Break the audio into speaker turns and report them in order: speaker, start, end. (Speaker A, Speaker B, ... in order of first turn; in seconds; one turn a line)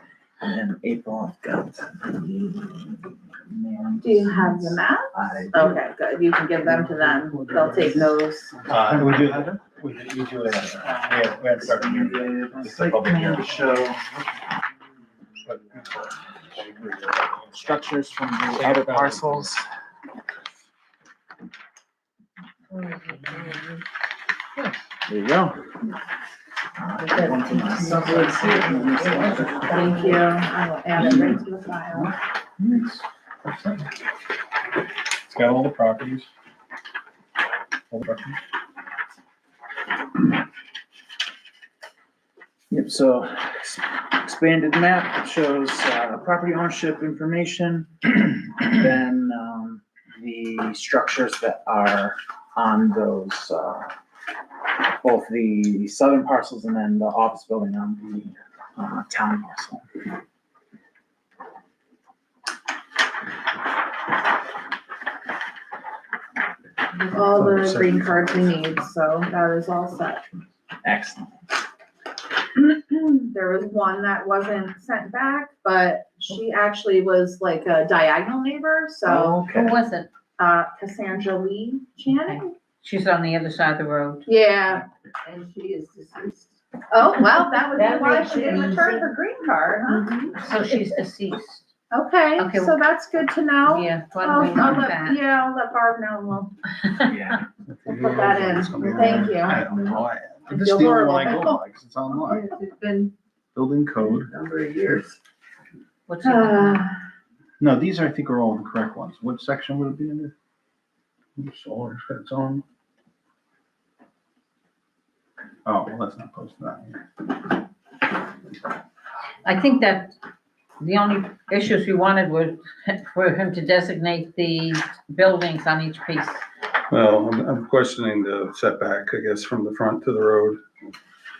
Speaker A: 0.4-5.8
Speaker B: 4.0-8.7
Speaker C: 8.7-13.6
Speaker A: 10.7-14.0
Speaker C: 15.5-16.1
Speaker C: 16.8-17.5
Speaker A: 17.5-19.6
Speaker C: 18.5-19.5
Speaker A: 24.6-25.6
Speaker A: 26.8-29.9
Speaker D: 27.1-30.2
Speaker B: 29.6-32.1
Speaker A: 31.0-31.3
Speaker C: 32.6-32.9
Speaker C: 33.5-33.8
Speaker C: 35.3-36.3
Speaker C: 37.9-38.4
Speaker A: 42.7-53.9
Speaker A: 55.0-59.8
Speaker B: 67.1-70.2
Speaker E: 67.3-68.4
Speaker A: 70.8-71.3
Speaker B: 73.2-79.4
Speaker A: 79.0-79.8
Speaker F: 79.5-80.1
Speaker B: 80.4-82.5
Speaker F: 82.1-84.3
Speaker B: 84.2-84.8
Speaker D: 85.2-86.5
Speaker B: 86.9-90.3
Speaker D: 87.6-89.1
Speaker F: 90.3-91.7
Speaker B: 91.9-96.5
Speaker F: 92.4-92.8
Speaker F: 93.7-95.2
Speaker A: 97.0-97.4
Speaker E: 97.7-100.4
Speaker B: 97.9-100.0
Speaker C: 99.8-102.4
Speaker B: 100.5-101.6
Speaker B: 102.6-103.1
Speaker C: 103.5-104.3
Speaker D: 104.3-105.0
Speaker F: 106.1-106.9
Speaker B: 106.2-107.0
Speaker C: 107.6-110.3
Speaker C: 111.4-112.6
Speaker C: 115.6-117.0
Speaker F: 119.4-120.1
Speaker F: 120.8-126.4
Speaker E: 126.9-130.6